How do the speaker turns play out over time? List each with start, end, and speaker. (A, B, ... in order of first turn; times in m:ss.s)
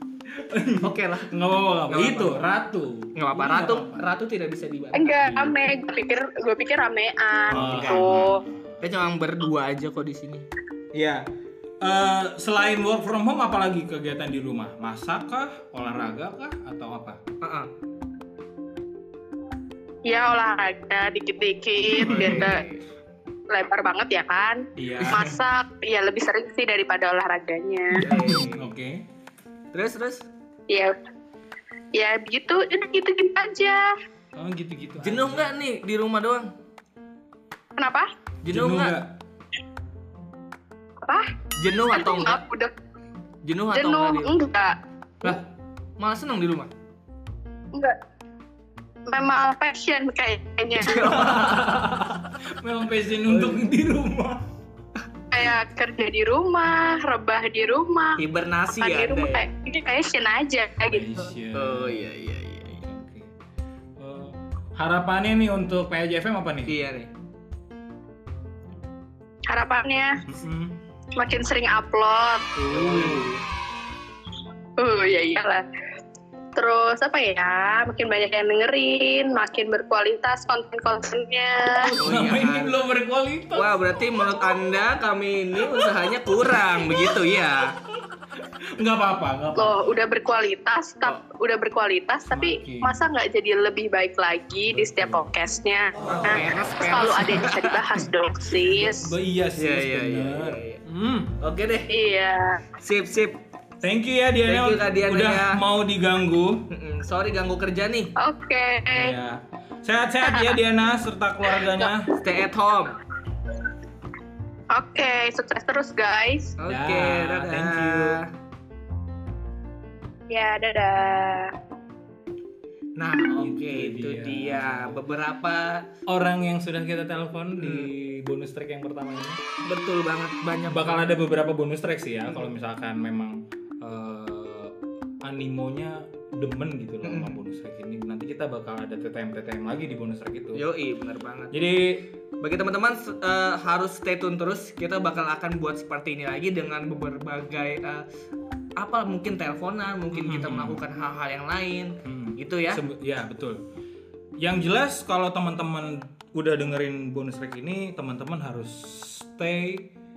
0:00.3-0:04.0 A
0:00.8-0:01.3 B
0:01.9-0:02.4 B
0:03.2-0:05.2 B
0:04.9-0:08.4 C
0:05.2-0:05.6 A
0:07.5-0:08.8 A
0:07.5-0:08.2 B
0:08.8-0:10.4 B
0:10.9-0:11.2 A
0:11.8-0:17.2 A
0:17.4-0:17.7 B
0:20.0-0:22.6 C
0:22.0-0:22.8 B
0:23.5-0:28.1 C
0:24.8-0:25.4 A
0:28.0-0:28.7 B
0:28.0-0:29.0 A
0:29.7-0:30.3 B
0:31.9-0:33.9 C
0:34.4-0:35.5 A
0:35.0-0:36.5 B
0:37.8-0:38.1 C
0:38.4-0:39.0 B
0:38.5-0:39.1 A
0:41.6-0:42.4 B
0:41.9-0:42.7 C
0:43.4-0:44.4 B
0:43.7-0:45.4 C
0:46.0-0:46.7 B
0:49.1-0:51.2 C
0:50.8-0:51.8 B
0:50.9-0:54.4 A
0:53.3-0:53.6 B
0:55.3-1:01.0 C
0:58.2-0:59.4 B
1:00.9-1:02.1 A
1:01.5-1:02.8 B
1:02.8-1:03.3 A
1:04.0-1:06.7 A
1:06.6-1:07.1 B
1:09.5-1:10.2 C
1:10.3-1:10.8 A
1:11.1-1:12.5 C
1:12.6-1:13.4 A
1:12.7-1:13.4 B
1:14.8-1:15.6 C
1:16.5-1:21.9 C
1:21.8-1:23.8 A
1:21.9-1:22.8 B
1:23.5-1:27.8 B
1:25.6-1:25.9 A
1:26.6-1:27.2 A
1:28.8-1:29.9 A
1:29.5-1:39.1 C
1:32.3-1:32.9 A
1:34.7-1:35.3 A
1:36.1-1:37.8 B
1:38.6-1:41.4 A
1:39.6-1:40.8 B
1:41.4-1:41.9 B
1:41.9-1:42.6 C
1:42.8-1:43.4 B
1:43.8-1:46.6 A
1:44.4-1:45.6 B
1:46.7-1:48.1 B
1:48.2-1:49.1 C
1:48.9-1:52.1 A
1:50.2-1:50.5 C
1:51.5-1:51.9 C
1:52.2-1:53.0 B
1:54.7-1:56.6 C
1:56.6-1:58.2 B
1:56.7-1:58.2 A
2:00.3-2:01.5 C
2:03.0-2:05.9 B
2:03.3-2:05.0 A
2:06.1-2:09.4 A
2:07.6-2:07.9 B
2:09.6-2:11.2 B
2:10.7-2:20.6 A
2:17.0-2:17.4 B
2:20.5-2:21.5 B
2:21.5-2:22.0 A
2:22.4-2:28.0 B
2:28.8-2:32.8 B
2:30.1-2:30.8 A
2:32.0-2:33.6 A
2:34.4-2:39.9 A